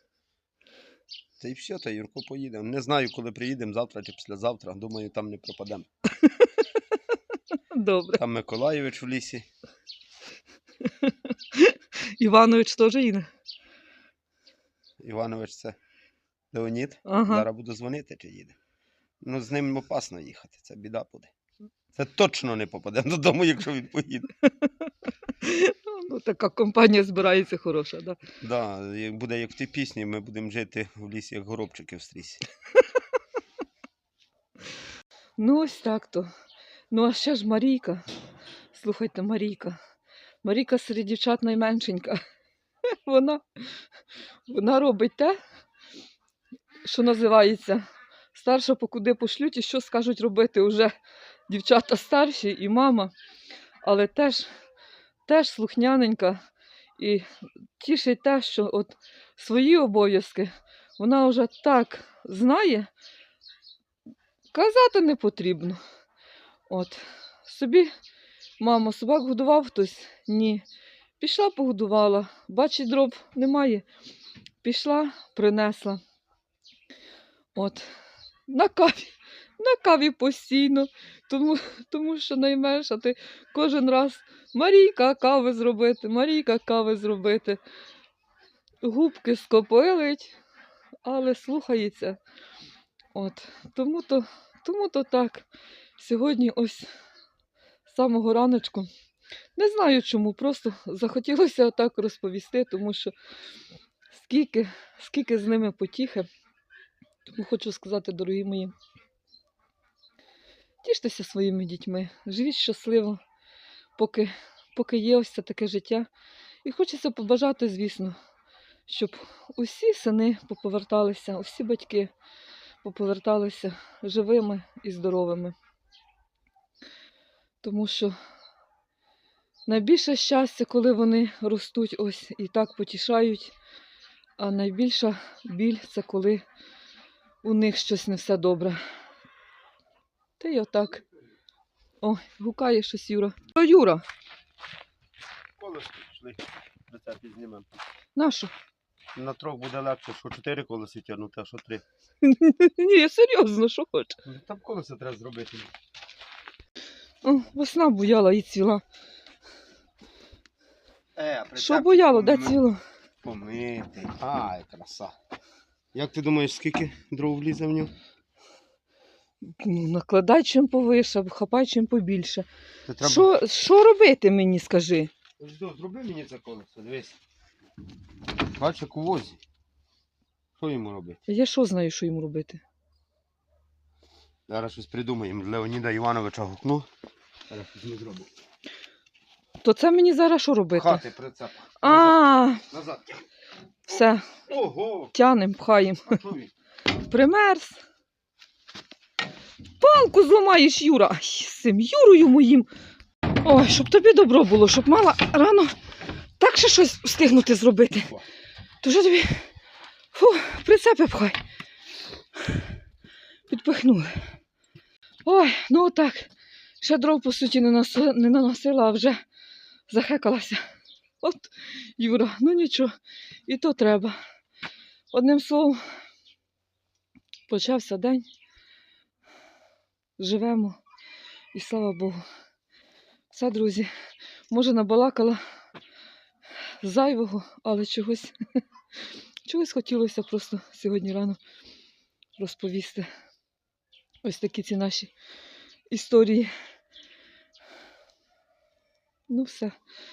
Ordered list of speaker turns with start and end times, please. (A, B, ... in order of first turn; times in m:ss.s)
0:01.4-0:05.9 A
0:06.2-0:06.6 B
0:07.7-0:08.2 B
0:08.2-0:09.5 A
0:10.8-0:13.3 B
0:15.0-0:15.8 A
0:16.5-0:18.6 A
0:17.1-0:17.5 B
0:19.2-0:21.3 A
0:21.9-0:24.3 A
0:24.4-0:28.2 B
0:28.4-0:32.4 A
0:35.4-0:36.3 B
0:36.9-0:38.0 B
0:38.7-0:39.8 B
0:40.4-0:42.2 B
0:43.0-0:43.7 B
0:44.5-0:45.4 B
0:46.8-0:47.8 B
0:48.3-0:50.9 B
0:51.5-0:53.1 B
0:53.8-0:54.5 B
0:55.3-0:56.4 B
0:57.0-0:57.2 B
0:57.8-1:02.9 B
1:04.5-1:05.8 B
1:06.7-1:07.9 B
1:08.6-1:10.6 B
1:11.2-1:13.8 B
1:14.6-1:16.0 B
1:17.6-1:17.9 B
1:18.5-1:27.6 B
1:28.8-1:30.4 B
1:31.0-1:32.2 B
1:33.1-1:35.5 B
1:36.0-1:36.9 B
1:37.9-1:38.9 B
1:39.6-1:43.1 B
1:44.1-1:46.3 B
1:47.3-1:48.7 B
1:50.8-1:53.2 B
1:54.0-1:56.1 B
1:56.6-1:58.2 B
1:58.9-2:02.1 B
2:02.8-2:05.6 B
2:07.6-2:08.2 B
2:09.7-2:13.5 B
2:14.4-2:16.4 B
2:17.4-2:18.8 B
2:20.4-2:21.0 B
2:22.0-2:24.0 B
2:25.6-2:27.7 A
2:28.2-2:28.5 B
2:29.2-2:31.8 A
2:32.2-2:34.2 B
2:34.2-2:35.7 A
2:37.2-2:38.8 B
2:41.2-2:42.6 A
2:41.6-2:42.8 B
2:43.2-2:45.2 A
2:45.9-2:47.9 A
2:49.4-2:52.5 B
2:52.9-2:53.3 A
2:53.0-2:55.1 B
2:55.4-2:57.2 A
2:58.4-2:59.4 A
3:00.6-3:01.2 A
3:01.3-3:02.6 B
3:04.5-3:06.9 A
3:07.5-3:08.3 A
3:09.6-3:11.0 B
3:10.7-3:13.2 A
3:11.8-3:12.6 B
3:13.9-3:14.5 B
3:13.9-3:15.1 A
3:15.1-3:16.2 B
3:16.1-3:16.5 A
3:16.9-3:17.8 B
3:19.8-3:22.7 B
3:23.4-3:25.8 B
3:26.4-3:28.2 B
3:28.8-3:29.5 B
3:30.1-3:31.4 B
3:33.5-3:34.2 B
3:35.2-3:36.3 B
3:36.8-3:39.2 B
3:39.9-3:40.6 B
3:41.2-3:42.9 B
3:43.5-3:44.2 B
3:45.1-3:45.8 B
3:47.5-3:48.2 B
3:50.2-3:50.8 B
3:51.5-3:52.2 B
3:53.3-3:53.9 B
3:54.5-3:55.4 B
3:56.8-3:58.3 B
3:59.4-4:01.4 B
4:02.4-4:03.1 B
4:04.2-4:05.1 B
4:05.9-4:06.5 B
4:09.3-4:09.7 B